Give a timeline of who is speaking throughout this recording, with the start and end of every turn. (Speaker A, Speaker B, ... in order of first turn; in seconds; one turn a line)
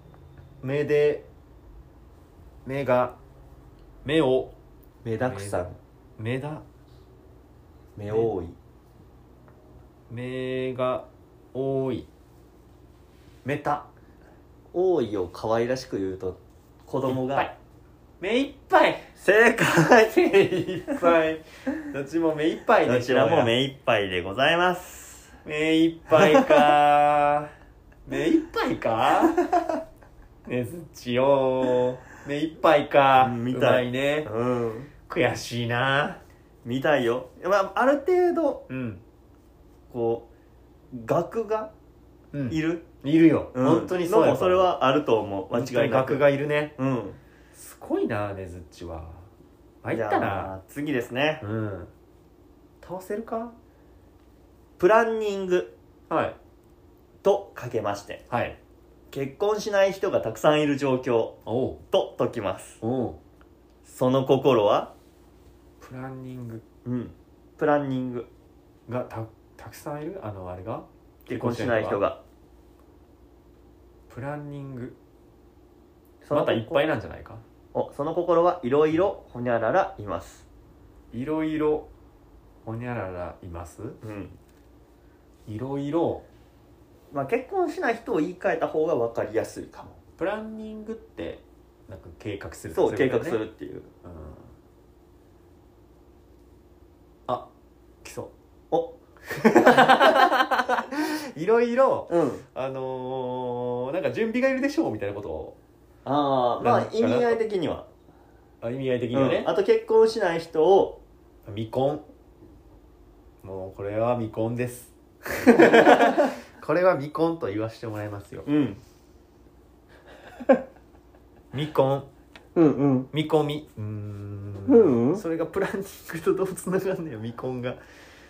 Speaker A: 0.6-1.3
Speaker A: 2.6-3.2
Speaker A: 4.0-4.5
Speaker B: 5.0-5.8
Speaker A: 5.3-5.7
Speaker A: 6.2-6.6
Speaker B: 8.0-8.6
Speaker A: 10.1-12.1
Speaker A: 13.4-13.9
Speaker B: 14.7-17.5
Speaker A: 17.1-17.5
Speaker A: 18.2-19.1
Speaker B: 19.2-20.1
Speaker A: 20.1-23.5
Speaker B: 22.9-25.3
Speaker A: 25.4-27.5
Speaker B: 26.1-26.7
Speaker A: 28.1-29.4
Speaker A: 30.4-34.3
Speaker B: 33.2-34.9
Speaker A: 35.1-36.2
Speaker B: 36.6-38.7
Speaker A: 38.7-39.0
Speaker B: 39.9-40.3
Speaker B: 40.9-41.7
Speaker A: 42.3-44.7
Speaker B: 42.5-42.8
Speaker B: 43.5-46.2
Speaker A: 45.5-46.7
Speaker B: 46.8-47.2
Speaker A: 47.5-49.3
Speaker A: 49.8-50.5
Speaker B: 49.9-51.4
Speaker A: 51.4-51.9
Speaker A: 52.8-53.6
Speaker B: 54.8-55.7
Speaker A: 56.1-56.4
Speaker B: 57.2-58.2
Speaker A: 58.3-58.6
Speaker B: 59.1-61.4
Speaker A: 61.5-61.8
Speaker B: 61.9-62.8
Speaker A: 62.8-63.2
Speaker B: 63.9-64.9
Speaker A: 65.8-66.6
Speaker B: 66.8-68.3
Speaker A: 68.9-72.0
Speaker B: 71.3-72.2
Speaker A: 74.1-75.0
Speaker B: 76.2-76.8
Speaker A: 76.3-77.4
Speaker B: 77.7-80.5
Speaker A: 81.1-81.9
Speaker A: 82.7-84.0
Speaker B: 84.0-84.4
Speaker A: 85.5-86.2
Speaker B: 87.1-90.0
Speaker A: 90.2-93.4
Speaker B: 92.7-93.9
Speaker A: 94.0-94.5
Speaker A: 98.0-98.3
Speaker B: 98.7-99.0
Speaker A: 99.3-105.6
Speaker B: 99.6-100.3
Speaker B: 102.1-102.4
Speaker B: 106.0-107.9
Speaker A: 106.6-107.4
Speaker A: 108.6-109.5
Speaker B: 109.1-111.0
Speaker A: 111.5-112.0
Speaker A: 113.4-118.5
Speaker B: 115.6-116.3
Speaker B: 118.5-118.8
Speaker A: 121.5-122.1
Speaker B: 122.5-123.1
Speaker A: 123.1-127.8
Speaker B: 124.7-125.2